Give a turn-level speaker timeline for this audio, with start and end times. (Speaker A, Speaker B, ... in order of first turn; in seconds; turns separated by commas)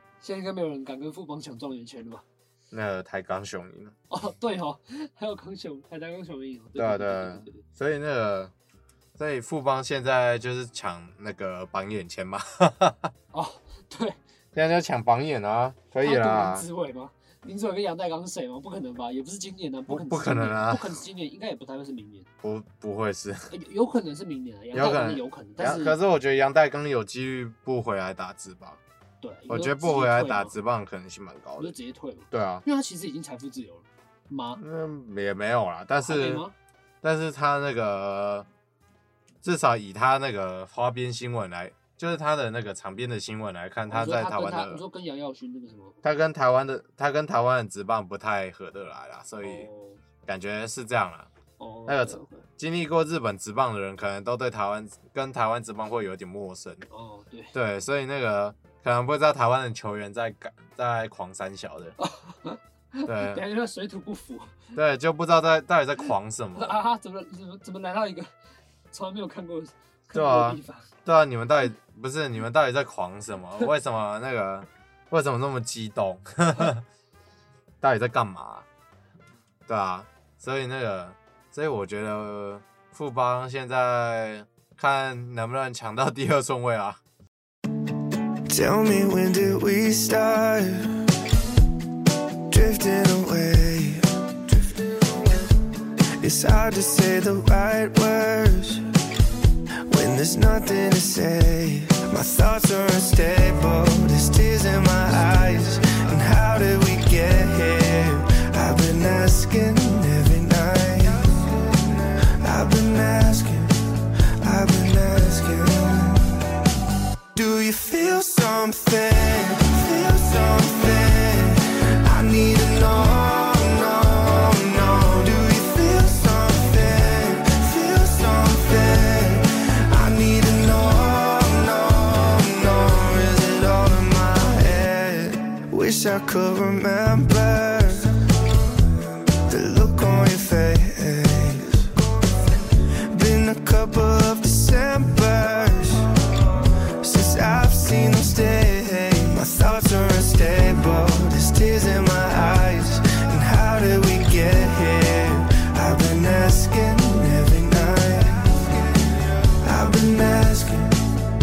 Speaker A: 0.2-2.2, Speaker B: 2.7-3.9, Speaker A: 4.1-7.6, Speaker B: 6.8-8.5, Speaker B: 9.2-13.1, Speaker A: 13.3-14.2, Speaker B: 14.5-16.6, Speaker A: 16.0-22.3, Speaker B: 19.9-21.0, Speaker B: 22.4-23.5, Speaker A: 23.5-26.0, Speaker B: 24.7-28.8, Speaker A: 29.2-30.6, Speaker B: 29.5-31.7, Speaker A: 31.6-34.6, Speaker B: 32.3-32.6, Speaker B: 34.6-36.4, Speaker A: 36.0-36.5, Speaker B: 37.0-38.5, Speaker B: 39.4-44.8, Speaker A: 43.9-46.0, Speaker B: 46.0-49.7, Speaker A: 49.4-50.0, Speaker B: 50.2-51.3, Speaker A: 51.6-52.5, Speaker B: 51.9-56.8, Speaker A: 56.9-57.5, Speaker B: 57.5-61.9, Speaker A: 62.0-64.7, Speaker B: 63.0-63.4, Speaker B: 64.7-66.8, Speaker A: 66.5-68.3, Speaker A: 68.9-70.9, Speaker B: 70.1-76.8, Speaker B: 77.8-78.7, Speaker B: 79.7-87.0, Speaker C: 88.5-91.0, Speaker C: 92.5-95.5, Speaker C: 96.2-98.9, Speaker C: 99.9-116.5, Speaker C: 117.3-138.3, Speaker C: 139.5-146.1, Speaker C: 147.0-161.0